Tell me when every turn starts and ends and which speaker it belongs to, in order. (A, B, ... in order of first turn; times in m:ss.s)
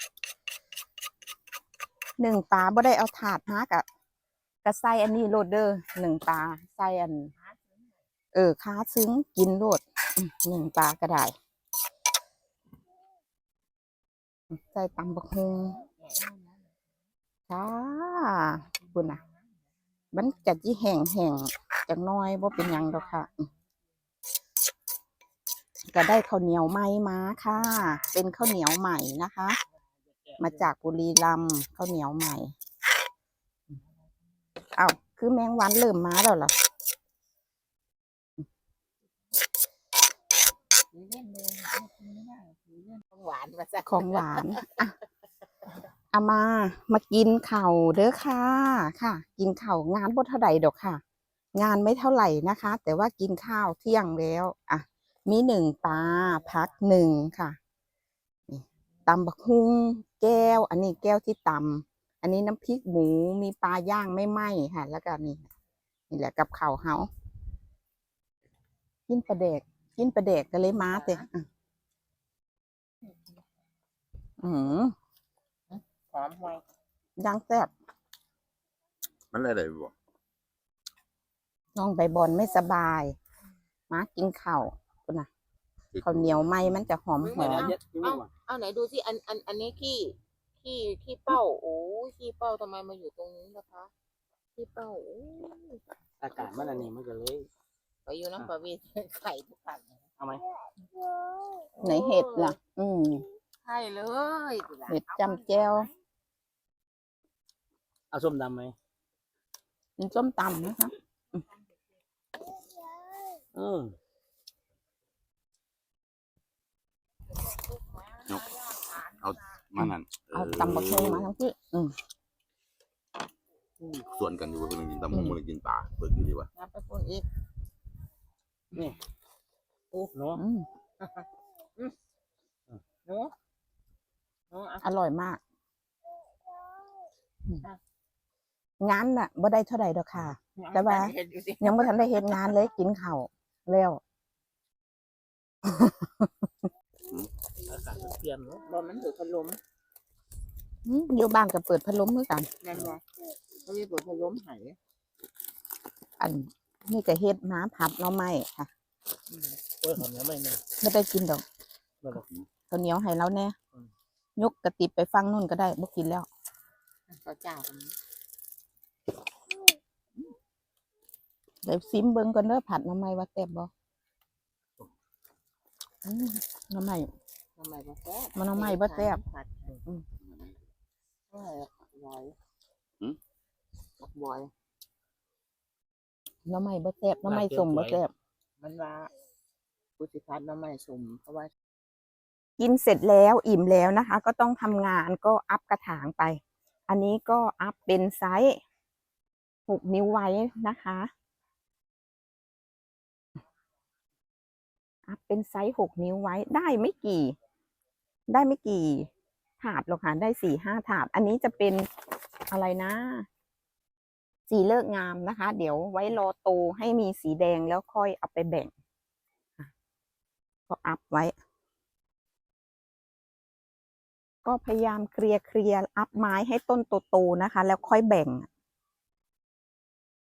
0:02.2-0:03.9 A
0:04.6-0:07.3 A
0:08.3-0:11.4 A
0:14.5-0:15.8 A
0:16.0-0:16.5 B
0:17.5-0:19.2 A
0:20.1-0:23.5 A
0:25.9-0:29.6 A
0:30.4-0:32.5 A
0:34.8-0:36.5 A
0:40.9-0:44.6 B
0:43.8-0:45.0 A
0:46.1-0:51.0 A
0:51.6-0:57.6 A
0:58.5-1:05.5 A
1:06.1-1:07.1 A
1:09.1-1:11.4 A
1:14.4-1:14.9 A
1:15.7-1:16.6 B
1:17.2-1:17.7 A
1:19.3-1:19.9 C
1:21.8-1:23.2 A
1:23.9-1:25.3 A
1:25.9-1:26.7 C
1:26.0-1:27.7 A
1:27.2-1:33.9 B
1:27.3-1:28.3 D
1:34.6-1:35.8 B
1:36.2-1:37.5 D
1:38.1-1:40.1 B
1:41.0-1:42.6 B
1:41.8-1:43.2 A
1:43.6-1:45.8 B
1:44.9-1:45.9 A
1:48.1-1:48.8 D
1:50.0-1:51.4 A
1:53.5-1:53.9 D
1:57.7-1:59.2 B
1:59.2-2:01.3 C
1:59.8-2:02.0 A
2:04.0-2:06.5 C
2:06.6-2:07.3 B
2:09.9-2:10.4 D
2:10.3-2:10.7 A
2:13.1-2:13.3 B
2:14.5-2:14.8 B
2:14.8-2:15.4 A
2:18.8-2:24.0 A
2:20.6-2:22.0 B
2:25.6-2:26.3 A
2:27.7-2:28.6 D
2:28.6-2:29.6 B
2:30.8-2:32.5 A
2:32.6-2:33.0 B
2:33.6-2:34.8 B
2:36.2-2:38.7 A
2:39.8-2:40.6 D
2:40.8-2:41.4 A
2:42.7-2:43.6 A
2:44.4-2:46.3 A
2:47.1-2:47.9 B
2:51.6-2:53.7 A
2:56.0-2:57.1 A
2:57.6-2:59.8 B
2:58.3-2:59.2 A
3:01.3-3:02.4 B
3:04.0-3:04.5 B
3:06.4-3:08.1 A
3:07.3-3:08.0 D
3:08.6-3:09.1 B
3:10.0-3:11.5 B
3:12.6-3:18.6 A
3:19.7-3:21.1 A
3:25.1-3:27.3 A
3:28.3-3:29.1 A
3:29.6-3:31.9 A
3:32.5-3:33.3 A
3:34.5-3:38.7 A
3:40.7-3:41.3 A
3:44.4-3:48.5 A